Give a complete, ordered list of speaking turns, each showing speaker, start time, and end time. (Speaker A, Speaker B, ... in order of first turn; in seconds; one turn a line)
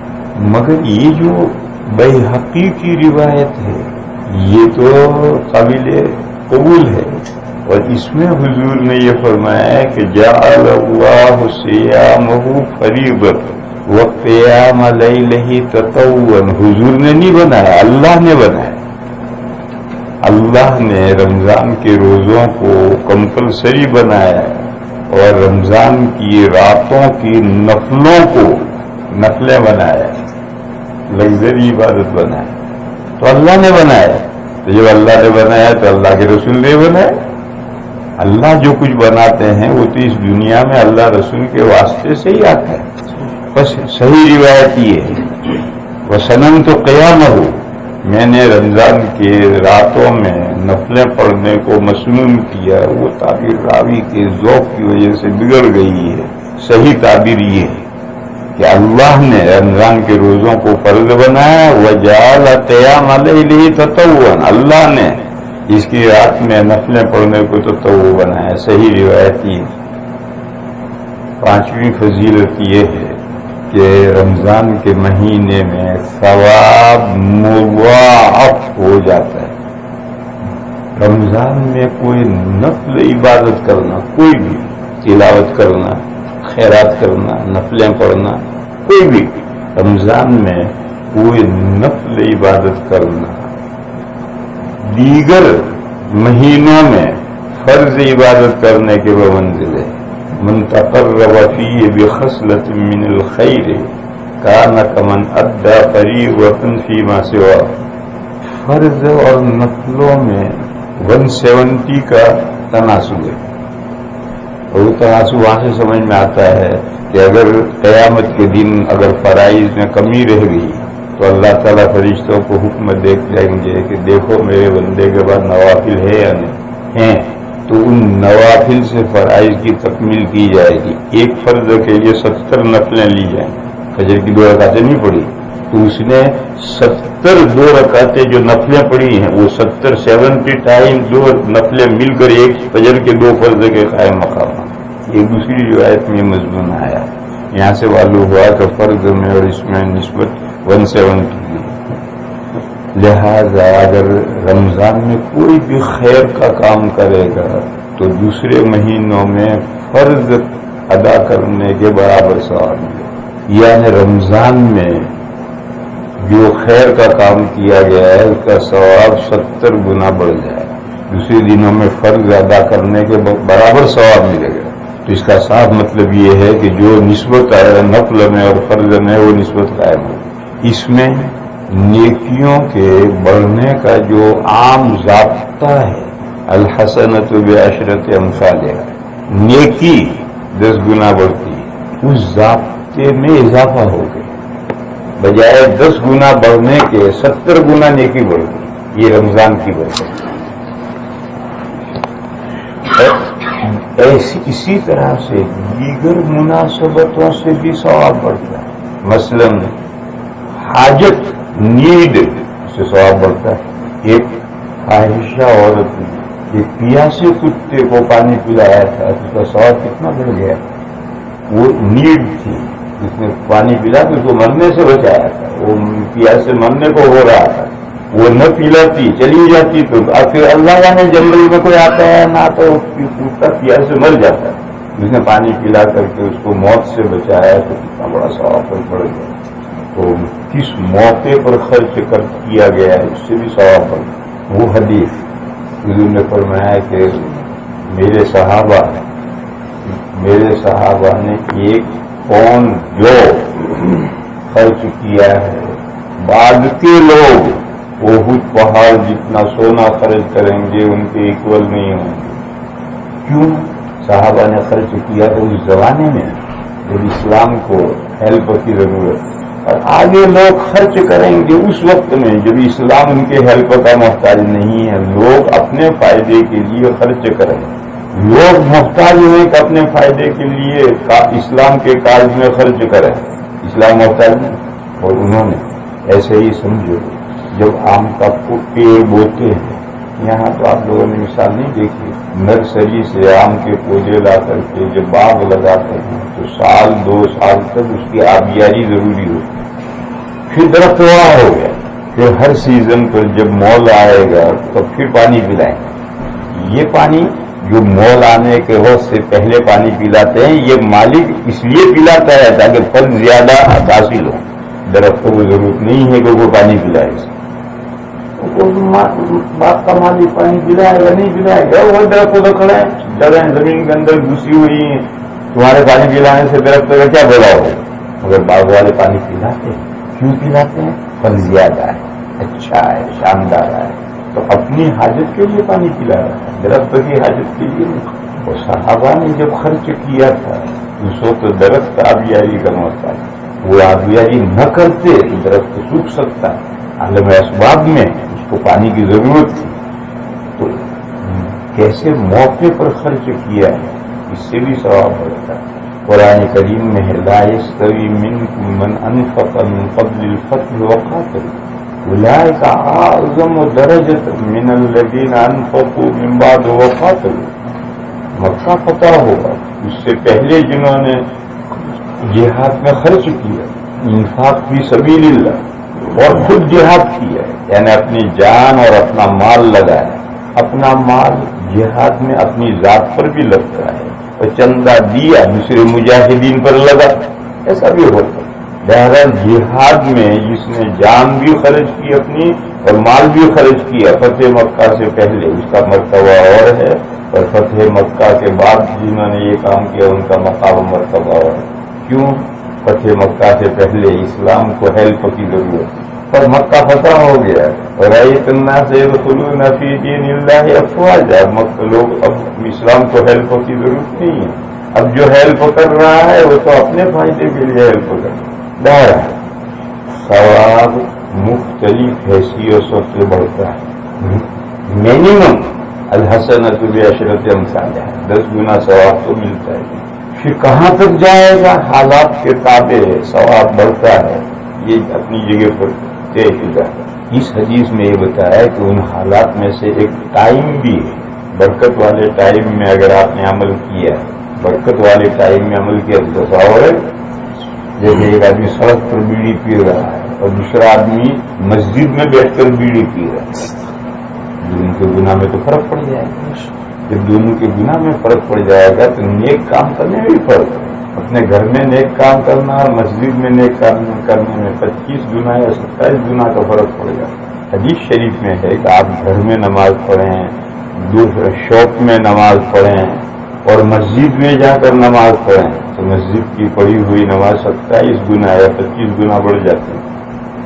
Speaker A: 0.3-18.8
Speaker A: 20.2-30.2
Speaker A: 31.1-32.5
Speaker A: 33.2-37.1
Speaker A: 38.2-42.9
Speaker A: 43.5-57.9
Speaker A: 58.5-69.7
Speaker A: 71.4-79.5
Speaker A: 80.9-93.5
Speaker A: 94.8-103.9
Speaker A: 104.4-107.8
Speaker A: 108.5-113.4
Speaker A: 114.7-151.8
Speaker A: 152.9-165.1
Speaker A: 166.2-194.3
Speaker A: 195.2-200.2
Speaker A: 202.9-209.7
Speaker A: 210.5-220.6
Speaker A: 221.5-239.3
Speaker A: 239.9-245.2
Speaker A: 245.8-249.0
Speaker A: 250.1-262.4
Speaker A: 263.2-299.6
Speaker A: 300.5-305.8
Speaker A: 306.5-317.3
Speaker A: 318.4-349.7
Speaker A: 350.6-367.5
Speaker A: 368.4-371.2
Speaker A: 372.2-419.4
Speaker A: 420.1-447.0
Speaker A: 448.0-453.6
Speaker A: 454.6-480.0